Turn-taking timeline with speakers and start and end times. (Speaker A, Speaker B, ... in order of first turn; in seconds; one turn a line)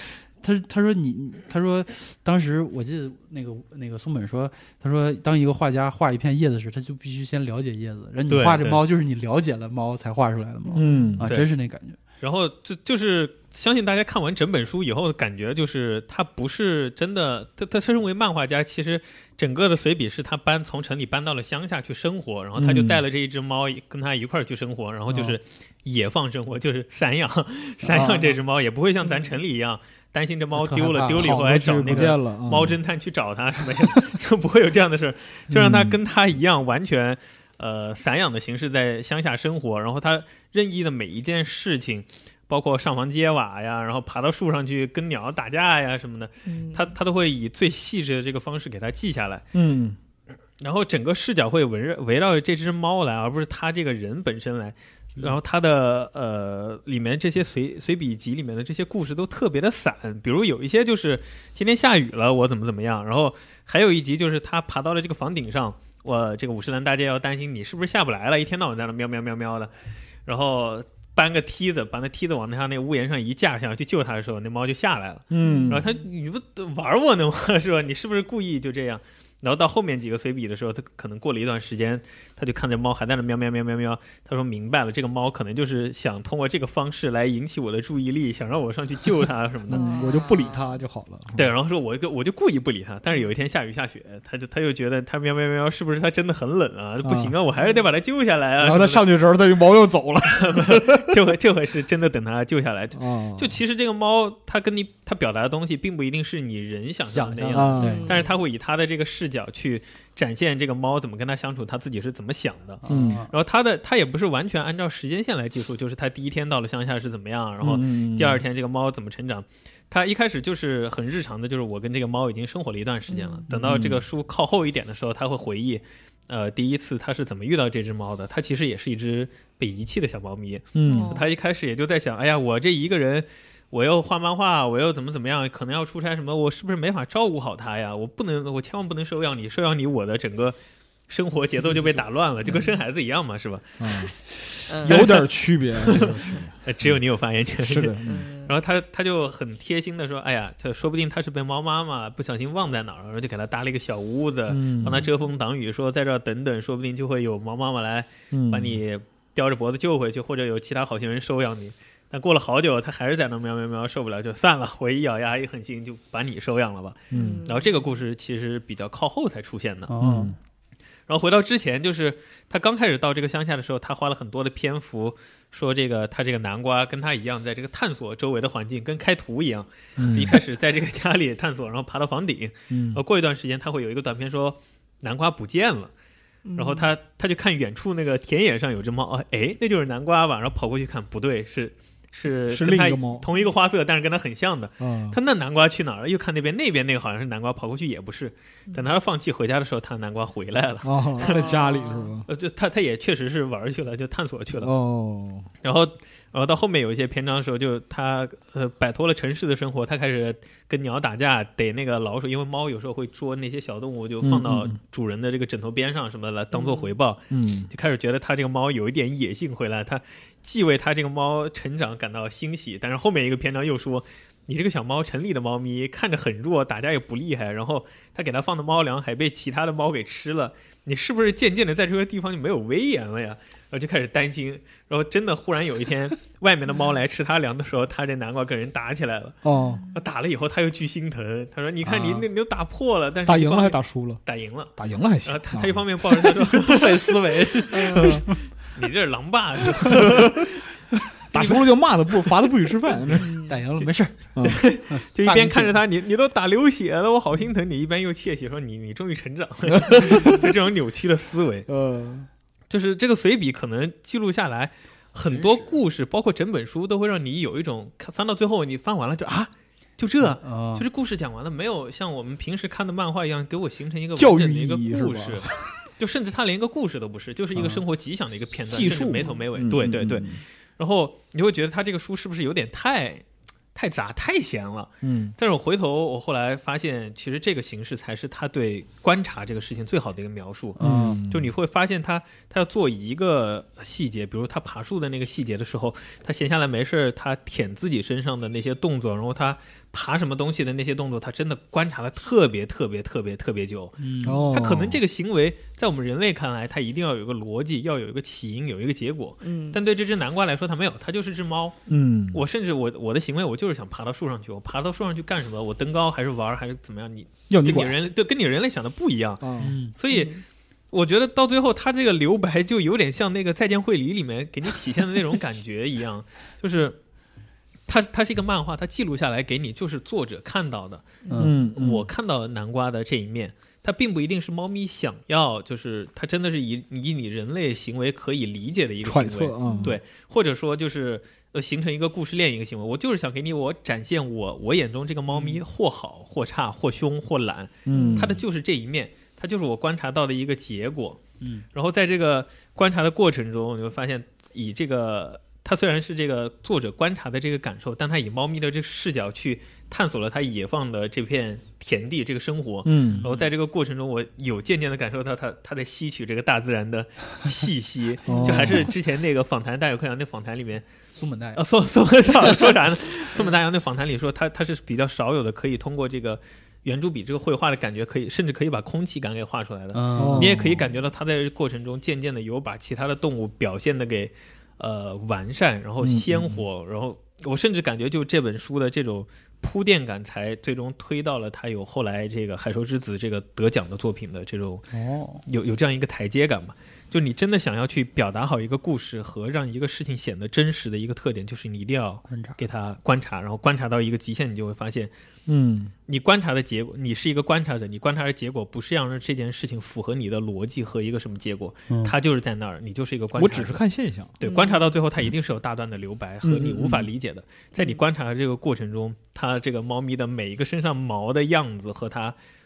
Speaker A: 0.4-12.0
Speaker B: 8.3-8.8
Speaker C: 10.7-11.1
Speaker D: 10.8-11.3
Speaker B: 11.2-11.5
Speaker B: 12.2-49.5
Speaker D: 22.6-23.0
Speaker A: 27.8-28.4
Speaker C: 29.0-29.4
Speaker A: 30.6-32.1
Speaker D: 31.1-32.8
Speaker D: 35.5-36.0
Speaker C: 46.5-46.9
Speaker D: 49.5-50.0
Speaker B: 50.6-69.7
Speaker B: 70.3-89.9
Speaker D: 75.3-75.8
Speaker C: 75.4-76.0
Speaker D: 89.7-91.5
Speaker C: 89.7-90.7
Speaker B: 91.3-99.1
Speaker D: 97.0-97.3
Speaker C: 97.5-97.9
Speaker D: 98.6-101.2
Speaker B: 100.3-140.6
Speaker D: 102.9-103.6
Speaker A: 107.1-108.1
Speaker D: 107.5-108.0
Speaker C: 107.8-108.4
Speaker A: 112.8-113.3
Speaker D: 112.9-113.3
Speaker D: 117.6-118.4
Speaker C: 123.1-123.4
Speaker D: 123.5-124.0
Speaker D: 130.7-131.1
Speaker C: 130.9-131.3
Speaker B: 141.1-143.8
Speaker D: 141.7-142.0
Speaker D: 143.8-147.0
Speaker C: 144.7-145.1
Speaker B: 144.9-169.9
Speaker D: 147.6-148.3
Speaker C: 148.0-148.5
Speaker D: 154.5-155.1
Speaker D: 158.3-158.8
Speaker D: 167.1-167.4
Speaker C: 167.1-168.0
Speaker A: 169.9-170.4
Speaker D: 170.0-170.4
Speaker B: 171.1-185.9
Speaker D: 180.0-180.4
Speaker D: 182.7-183.0
Speaker C: 186.4-186.9
Speaker B: 186.6-201.5
Speaker D: 192.5-193.3
Speaker D: 194.8-195.2
Speaker D: 200.8-202.3
Speaker C: 201.2-202.1
Speaker B: 202.3-204.7
Speaker D: 204.6-205.5
Speaker B: 205.6-239.4
Speaker D: 214.2-214.8
Speaker C: 216.5-216.9
Speaker D: 217.3-217.7
Speaker D: 239.4-239.8
Speaker C: 239.6-239.9
Speaker B: 239.9-244.7
Speaker A: 241.8-242.3
Speaker D: 243.3-244.2
Speaker D: 244.8-246.5
Speaker B: 245.2-248.2
Speaker A: 246.5-248.4
Speaker C: 247.7-248.0
Speaker B: 248.7-250.6
Speaker D: 249.9-250.3
Speaker D: 251.3-253.3
Speaker B: 251.3-251.7
Speaker C: 253.2-253.6
Speaker A: 253.5-254.3
Speaker D: 254.3-254.6
Speaker B: 254.4-261.7
Speaker A: 254.9-255.8
Speaker D: 259.8-260.5
Speaker D: 261.7-262.3
Speaker B: 262.7-290.8
Speaker A: 265.3-265.8
Speaker A: 270.2-270.9
Speaker D: 274.2-275.7
Speaker A: 277.6-277.8
Speaker D: 278.7-280.4
Speaker D: 285.0-285.4
Speaker A: 290.8-291.2
Speaker D: 290.8-291.5
Speaker B: 291.3-311.8
Speaker A: 304.0-304.5
Speaker D: 304.2-305.0
Speaker C: 309.4-309.8
Speaker D: 311.9-312.4
Speaker B: 312.3-320.3
Speaker D: 317.5-318.0
Speaker D: 319.4-319.8
Speaker A: 319.6-319.9
Speaker C: 320.1-320.4
Speaker B: 320.9-327.0
Speaker B: 327.9-331.2
Speaker A: 331.3-331.6
Speaker D: 331.4-332.1
Speaker B: 331.7-351.2
Speaker D: 339.0-340.0
Speaker C: 339.6-340.0
Speaker A: 345.3-345.6
Speaker D: 347.9-348.4
Speaker C: 347.9-348.3
Speaker B: 351.7-370.9
Speaker D: 362.9-363.3
Speaker D: 368.3-368.9
Speaker A: 368.3-368.9
Speaker A: 371.2-371.6
Speaker B: 371.6-394.9
Speaker A: 379.9-380.7
Speaker D: 380.2-380.9
Speaker D: 386.0-386.6
Speaker A: 394.9-395.4
Speaker B: 395.5-405.1
Speaker A: 402.3-402.6
Speaker D: 405.5-405.9
Speaker B: 406.1-413.8
Speaker A: 411.9-412.1
Speaker D: 413.4-414.4
Speaker B: 414.4-422.4
Speaker C: 414.4-414.9
Speaker D: 416.4-417.1
Speaker C: 417.8-418.0